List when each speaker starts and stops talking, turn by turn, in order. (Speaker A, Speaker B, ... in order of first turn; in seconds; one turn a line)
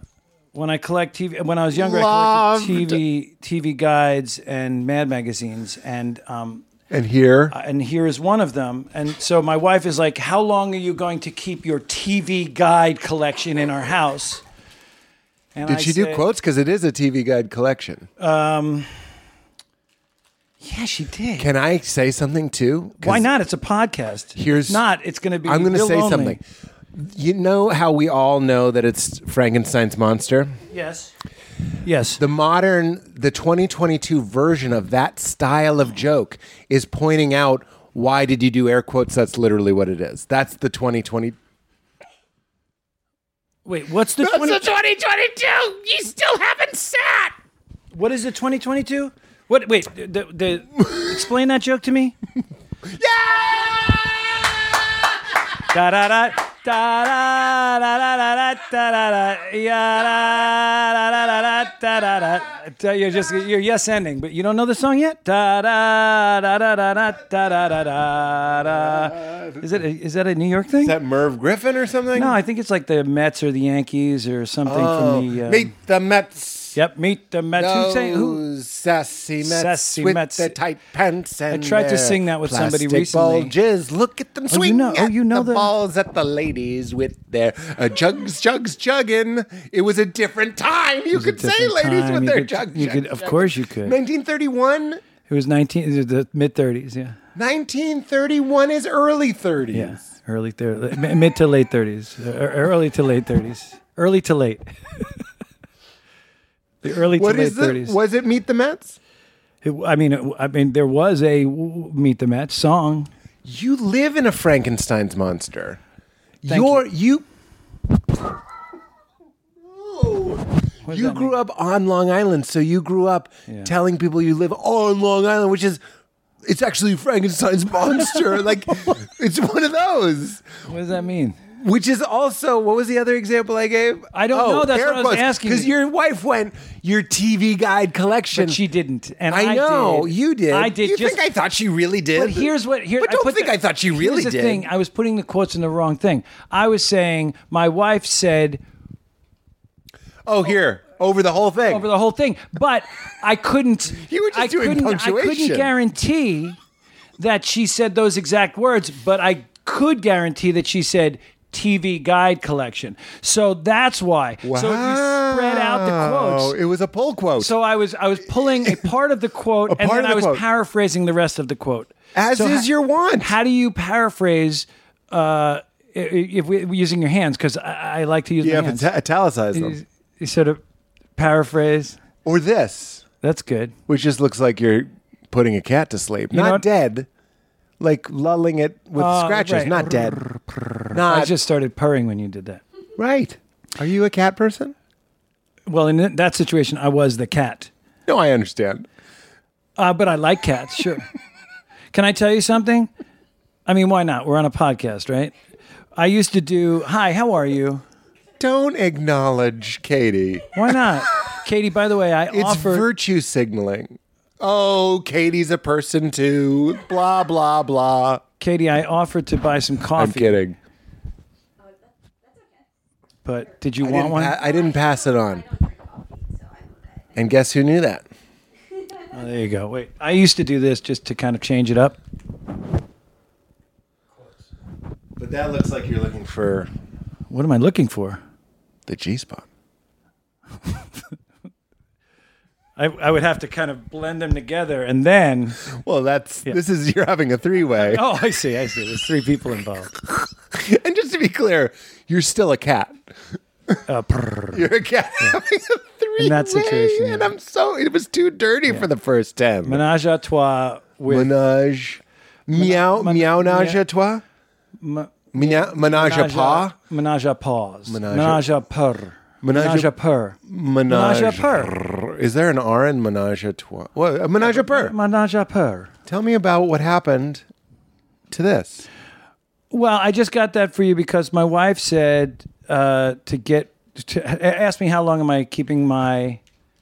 Speaker A: 0.5-6.7
Speaker B: 1.7-3.0
Speaker B: 6.9-7.5
Speaker A: 7.5-14.4
Speaker A: 15.5-16.2
Speaker B: 15.6-18.1
Speaker A: 18.2-19.1
Speaker A: 20.6-21.5
Speaker B: 21.4-23.3
Speaker A: 23.0-26.4
Speaker B: 24.3-24.8
Speaker B: 25.4-26.4
Speaker B: 26.9-30.5
Speaker A: 30.7-31.1
Speaker A: 31.8-32.2
Speaker B: 32.2-41.4
Speaker A: 43.6-44.7
Speaker B: 44.2-47.3
Speaker A: 47.9-52.1
Speaker B: 52.8-55.4
Speaker A: 55.7-71.0
Speaker B: 68.8-69.8
Speaker B: 70.8-72.4
Speaker A: 72.1-75.7
Speaker B: 74.6-76.8
Speaker A: 76.7-78.4
Speaker B: 77.5-95.0
Speaker A: 79.4-80.5
Speaker A: 81.5-83.5
Speaker A: 84.5-85.7
Speaker A: 91.1-94.0
Speaker A: 95.3-97.2
Speaker B: 97.3-100.0
Speaker A: 99.7-105.1
Speaker A: 106.8-108.0
Speaker B: 107.1-109.0
Speaker A: 109.6-113.1
Speaker B: 113.4-115.8
Speaker B: 116.4-117.2
Speaker A: 116.5-116.8
Speaker B: 119.6-125.8
Speaker A: 120.8-121.4
Speaker B: 126.4-130.4
Speaker A: 130.6-131.4
Speaker B: 131.5-138.6
Speaker A: 134.1-135.7
Speaker A: 138.3-141.2
Speaker B: 139.3-144.7
Speaker A: 142.1-148.6
Speaker B: 150.2-151.9
Speaker A: 151.7-156.6
Speaker B: 153.9-155.7
Speaker A: 157.2-166.6
Speaker B: 164.4-167.5
Speaker A: 167.3-172.7
Speaker B: 169.7-170.4
Speaker B: 172.1-173.3
Speaker A: 173.2-178.9
Speaker B: 178.4-179.8
Speaker A: 179.5-180.6
Speaker A: 181.2-182.0
Speaker B: 182.2-183.0
Speaker A: 183.2-183.7
Speaker B: 183.9-187.1
Speaker A: 186.3-186.6
Speaker B: 187.8-190.2
Speaker A: 188.9-192.6
Speaker B: 190.9-191.3
Speaker B: 193.0-194.7
Speaker A: 195.7-197.7
Speaker B: 198.1-198.9
Speaker A: 199.8-201.1
Speaker A: 201.9-202.9
Speaker A: 203.7-205.3
Speaker A: 205.9-207.8
Speaker B: 208.4-210.6
Speaker A: 210.5-212.9
Speaker B: 212.3-218.2
Speaker A: 218.4-220.4
Speaker B: 219.9-220.6
Speaker C: 221.6-222.7
Speaker A: 223.2-224.3
Speaker B: 223.8-225.4
Speaker C: 224.2-227.3
Speaker B: 227.1-228.0
Speaker A: 229.1-232.0
Speaker B: 235.2-236.7
Speaker A: 237.3-238.2
Speaker B: 238.9-239.4
Speaker A: 242.8-245.6
Speaker B: 245.7-248.0
Speaker A: 247.7-249.9
Speaker B: 250.1-253.0
Speaker A: 253.9-254.7
Speaker B: 254.5-259.8
Speaker A: 256.2-257.3
Speaker A: 259.6-261.3
Speaker B: 261.1-264.2
Speaker A: 262.5-263.8
Speaker A: 264.8-271.7
Speaker B: 265.3-266.7
Speaker B: 267.9-268.4
Speaker B: 269.4-269.9
Speaker B: 270.4-274.9
Speaker A: 274.4-275.9
Speaker B: 276.1-277.4
Speaker B: 278.3-278.8
Speaker A: 279.7-286.4